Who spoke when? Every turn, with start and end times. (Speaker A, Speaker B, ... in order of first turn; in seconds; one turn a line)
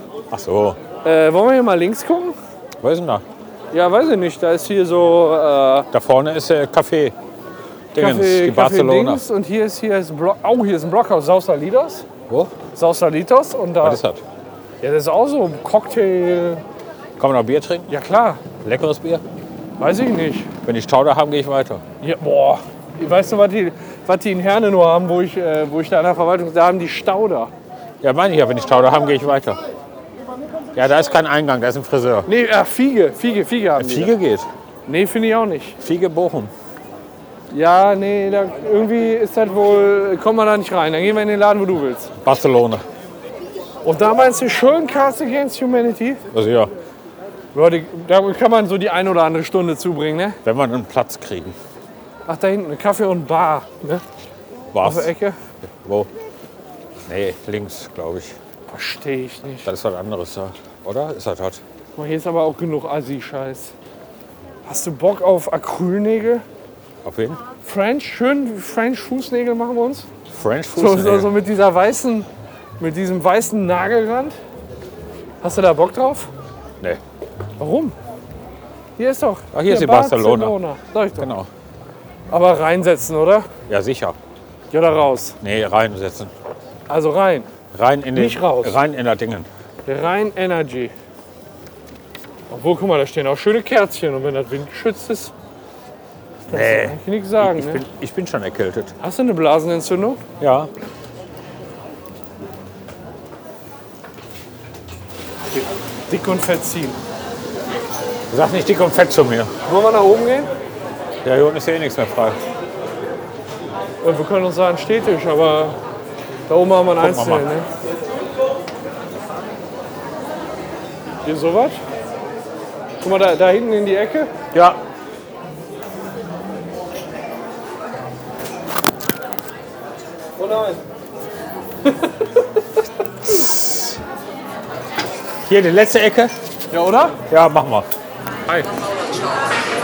Speaker A: 0.3-0.8
Speaker B: 1.0-2.4
Speaker A: 2.8-3.2
Speaker B: 3.7-5.9
Speaker A: 5.9-7.1
Speaker A: 7.9-9.2
Speaker B: 8.0-12.1
Speaker A: 12.3-12.6
Speaker B: 12.7-14.0
Speaker A: 13.8-14.2
Speaker B: 14.8-16.6
Speaker A: 17.2-17.9
Speaker B: 17.9-18.4
Speaker A: 18.6-19.2
Speaker B: 19.8-20.5
Speaker A: 20.6-21.8
Speaker B: 22.0-27.5
Speaker A: 28.0-29.6
Speaker A: 30.8-32.3
Speaker B: 32.3-34.1
Speaker A: 33.8-34.5
Speaker B: 34.9-35.8
Speaker A: 35.8-36.5
Speaker B: 37.5-42.1
Speaker A: 42.2-42.8
Speaker B: 43.8-46.2
Speaker A: 46.3-46.7
Speaker B: 47.5-50.4
Speaker A: 50.5-51.5
Speaker B: 52.3-54.0
Speaker A: 54.7-55.1
Speaker B: 54.8-55.4
Speaker A: 55.6-56.1
Speaker A: 57.1-58.4
Speaker B: 58.7-59.7
Speaker A: 59.6-61.6
Speaker B: 62.0-63.7
Speaker B: 64.7-66.4
Speaker A: 67.0-67.4
Speaker B: 67.6-70.1
Speaker A: 70.3-71.3
Speaker B: 70.8-74.4
Speaker B: 75.4-76.3
Speaker B: 77.6-78.0
Speaker B: 79.0-81.3
Speaker A: 79.5-80.6
Speaker A: 81.2-81.5
Speaker B: 82.3-83.5
Speaker A: 83.7-84.2
Speaker B: 84.7-85.4
Speaker A: 85.4-86.3
Speaker B: 86.9-87.5
Speaker A: 87.7-89.5
Speaker B: 88.1-88.8
Speaker B: 89.9-90.9
Speaker B: 92.5-95.3
Speaker A: 96.5-98.9
Speaker B: 96.5-97.8
Speaker B: 99.0-100.2
Speaker A: 100.4-100.7
Speaker B: 105.5-107.0
Speaker A: 108.3-109.5
Speaker B: 109.7-110.5
Speaker A: 111.2-112.4
Speaker B: 114.0-115.8
Speaker B: 116.5-117.7
Speaker A: 117.0-117.5
Speaker B: 121.2-121.8
Speaker B: 123.0-124.3
Speaker A: 124.5-124.8
Speaker B: 130.4-130.8
Speaker B: 131.9-132.3
Speaker A: 133.3-134.0
Speaker A: 135.5-136.3
Speaker B: 136.7-137.2
Speaker A: 137.3-137.9